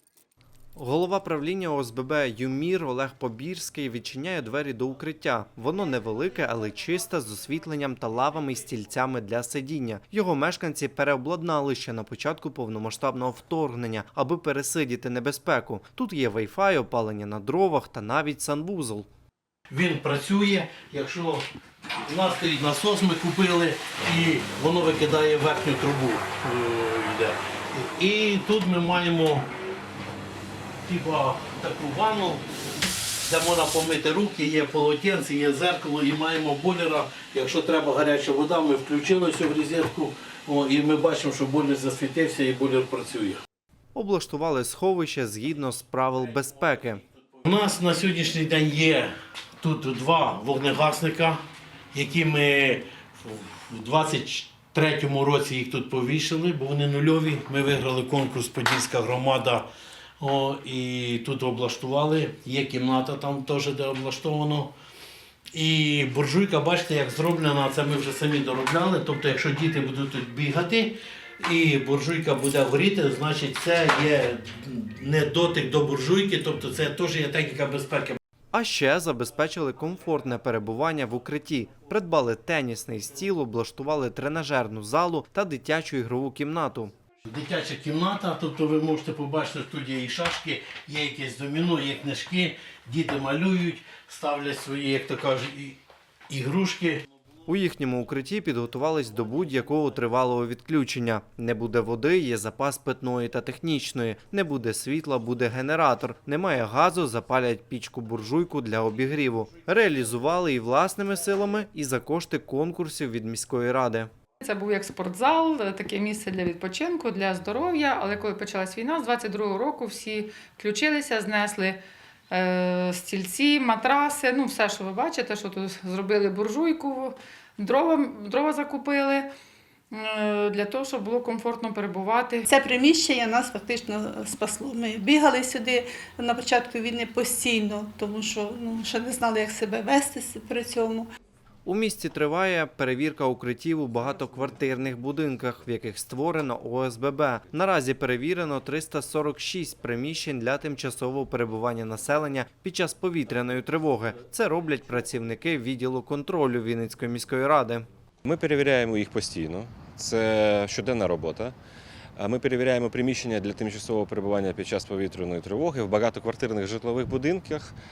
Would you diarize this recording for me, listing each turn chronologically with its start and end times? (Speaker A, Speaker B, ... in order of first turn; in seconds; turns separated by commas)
Speaker A: 0.8-19.1, Speaker B: 19.7-21.4, Speaker B: 22.0-29.5, Speaker B: 30.8-32.4, Speaker B: 33.2-43.4, Speaker A: 43.9-47.0, Speaker B: 47.4-51.4, Speaker B: 51.9-59.7, Speaker B: 60.2-64.7, Speaker B: 65.5-78.2, Speaker A: 78.5-86.9, Speaker B: 87.2-95.8, Speaker B: 96.3-97.0, Speaker A: 97.5-114.1, Speaker C: 114.4-129.3, Speaker C: 129.9-132.5, Speaker D: 132.5-141.1, Speaker A: 141.6-157.8, Speaker E: 158.2-161.5, Speaker E: 162.2-167.7